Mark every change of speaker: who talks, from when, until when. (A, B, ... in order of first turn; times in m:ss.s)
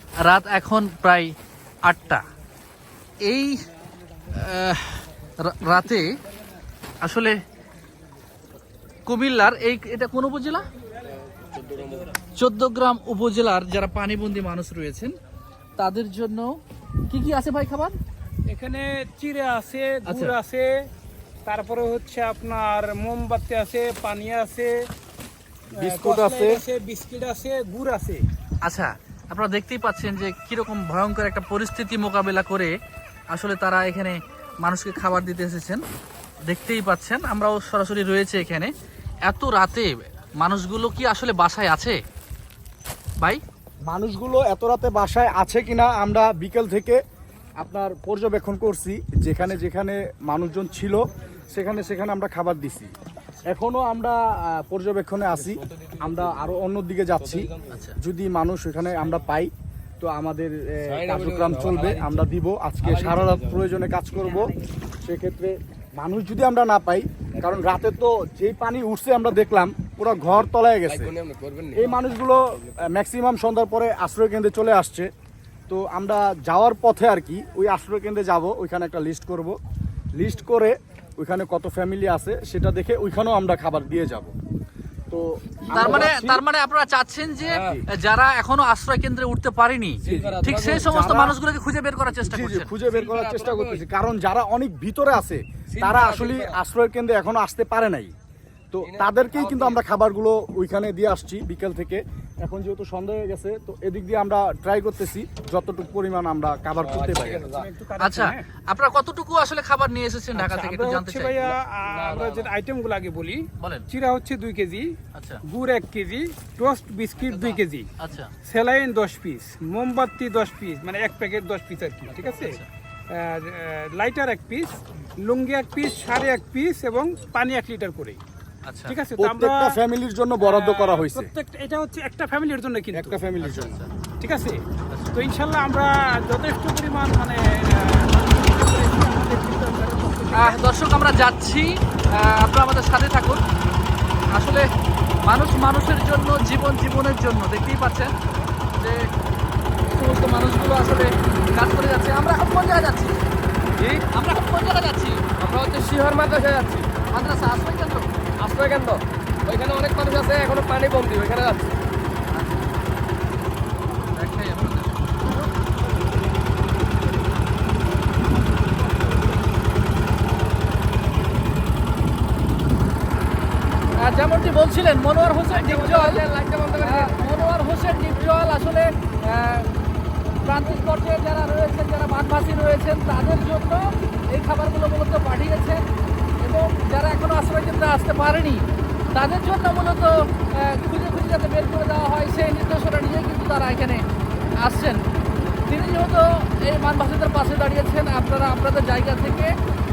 0:00.2-0:01.3 A
0:01.8-0:02.2 A
0:03.2-0:03.6 A
0:04.3-0:06.1 A
0:07.0-0:07.4 A
0:09.1-0:10.6 A
0:11.3-0:12.1 B
0:12.3-0:15.2 A
0:15.8-0:18.0 A
0:18.5-0:20.7 C
0:20.0-0:20.3 A
0:21.4-0:24.8 C
0:25.7-0:26.6 D
0:25.8-0:28.2 C
0:28.6-0:32.7 A
0:33.3-0:35.8 A
0:36.4-0:38.7 A
0:39.2-0:42.0 A
0:43.9-0:47.0 D
0:47.6-0:52.9 D
0:53.4-0:57.5 D
0:55.4-0:56.5 B
0:57.2-0:57.7 B
0:57.7-0:58.0 A
0:58.0-1:11.1 D
1:00.9-1:02.2 B
1:02.8-1:03.6 B
1:10.8-1:12.0 B
1:11.7-1:15.1 D
1:15.7-1:19.6 D
1:20.2-1:24.3 D
1:25.1-1:26.4 D
1:25.7-1:32.7 A
1:25.8-1:26.1 B
1:27.4-1:27.8 B
1:30.0-1:30.9 B
1:30.0-1:31.4 D
1:32.2-1:38.1 D
1:32.9-1:33.8 B
1:35.7-1:36.6 B
1:38.7-1:47.5 D
1:38.8-1:39.8 B
1:46.8-1:47.7 B
1:47.4-1:48.4 C
1:48.0-1:51.5 A
1:50.3-1:54.9 C
1:51.8-1:52.5 B
1:53.6-1:53.9 A
1:55.1-1:55.4 A
1:55.4-1:57.9 C
1:57.2-1:58.3 A
1:58.4-2:08.2 C
2:02.4-2:02.6 A
2:08.6-2:09.0 A
2:08.9-2:09.8 C
2:09.2-2:11.3 D
2:10.4-2:13.2 C
2:12.9-2:13.8 D
2:13.4-2:13.9 A
2:14.2-2:14.6 C
2:14.9-2:15.2 A
2:15.1-2:20.6 C
2:20.3-2:23.4 A
2:24.3-2:24.7 A
2:25.2-2:28.1 A
2:28.7-2:29.1 A
2:29.9-2:33.2 A
2:33.8-2:34.0 B
2:34.1-2:35.2 A
2:35.4-2:36.9 B
2:37.1-2:38.1 A
2:38.4-2:41.8 B
2:42.3-2:42.7 A
2:44.1-2:45.4 A
2:54.0-2:56.2 A
2:55.5-2:57.2 B
2:56.8-2:59.7 A
3:00.4-3:05.8 A
3:06.4-3:14.0 A
3:14.6-3:15.0 A
3:15.7-3:19.6 A